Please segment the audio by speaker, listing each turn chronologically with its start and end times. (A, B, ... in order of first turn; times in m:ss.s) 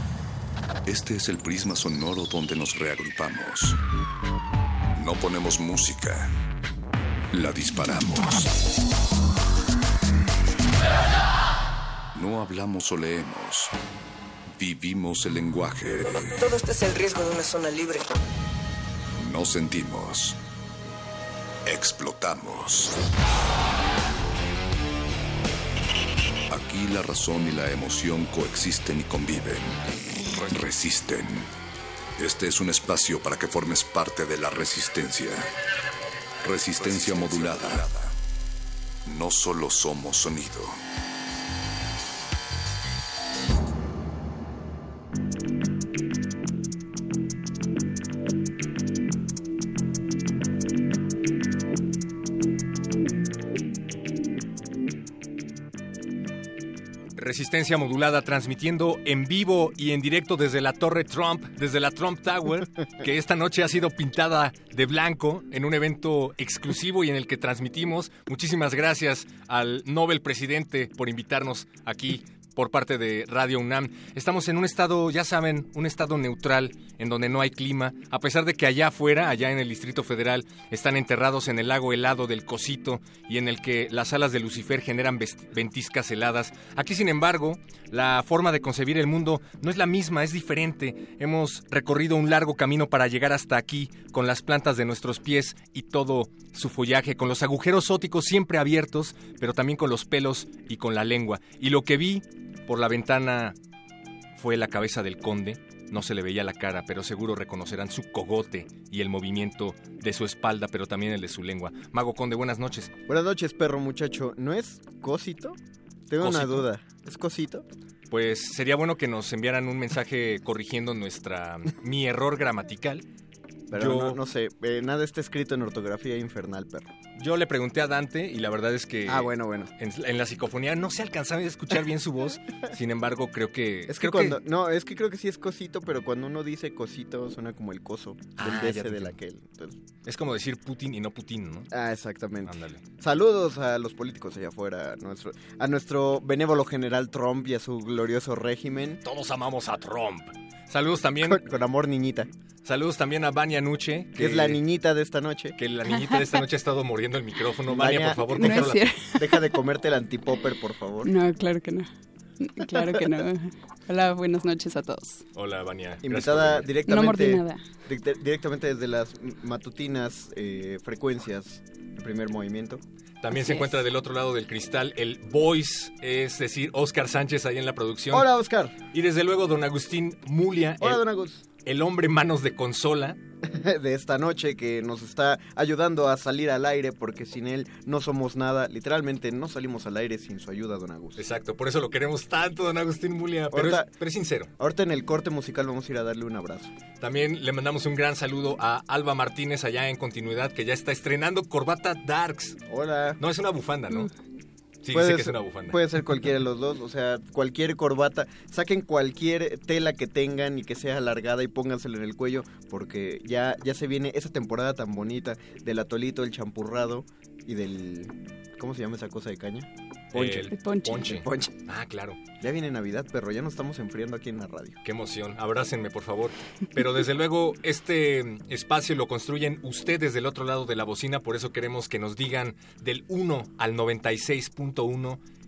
0:00.9-0:03.8 A
0:05.0-0:06.3 A
0:07.3-0:08.5 A
0:12.2-0:13.7 A
0:14.5-0:16.3 A
0:16.1-0:18.2 B
0:19.2-0:20.4 A
0:21.7-0:22.9 A
0:26.5-0:31.5 A
0:32.2-0:35.5 A
0:36.4-0:38.1 A
0:39.1-0:40.8 A
0:57.2-1:43.6 C
1:44.4-1:52.9 C
1:53.1-1:55.6 D
1:56.1-1:57.6 D
1:56.2-1:56.7 C
1:58.1-2:03.0 C
2:03.7-2:06.9 D
2:03.8-2:04.2 C
2:07.2-2:14.4 C
2:09.1-2:09.7 D
2:13.9-2:19.8 D
2:18.4-2:19.2 C
2:20.0-2:21.7 C
2:21.7-2:29.0 D
2:22.4-2:22.8 C
2:29.0-2:31.4 C
2:31.2-2:32.3 D
2:32.6-2:34.6 C
2:34.2-2:35.6 D
2:35.6-2:38.8 C
2:37.7-2:41.1 D
2:38.3-2:39.2 E
2:41.0-2:41.9 E
2:42.4-2:45.2 E
2:45.4-2:46.7 C
2:46.0-2:52.8 D
2:46.9-2:47.6 E
2:53.2-2:58.3 C
2:58.1-2:58.8 D
2:58.9-3:01.0 C
3:00.8-3:01.4 D
3:01.6-3:03.2 C
3:03.4-3:11.2 D
3:11.2-3:14.5 C
3:13.5-3:13.9 D
3:14.6-3:16.7 D
3:17.0-3:22.6 C
3:22.7-3:23.2 D
3:23.2-3:24.1 C
3:24.8-3:25.8 C
3:24.9-3:40.5 D
3:40.1-3:42.2 C
3:40.5-3:41.0 E
3:41.0-3:41.6 D
3:42.4-3:44.8 D
3:44.8-3:55.2 C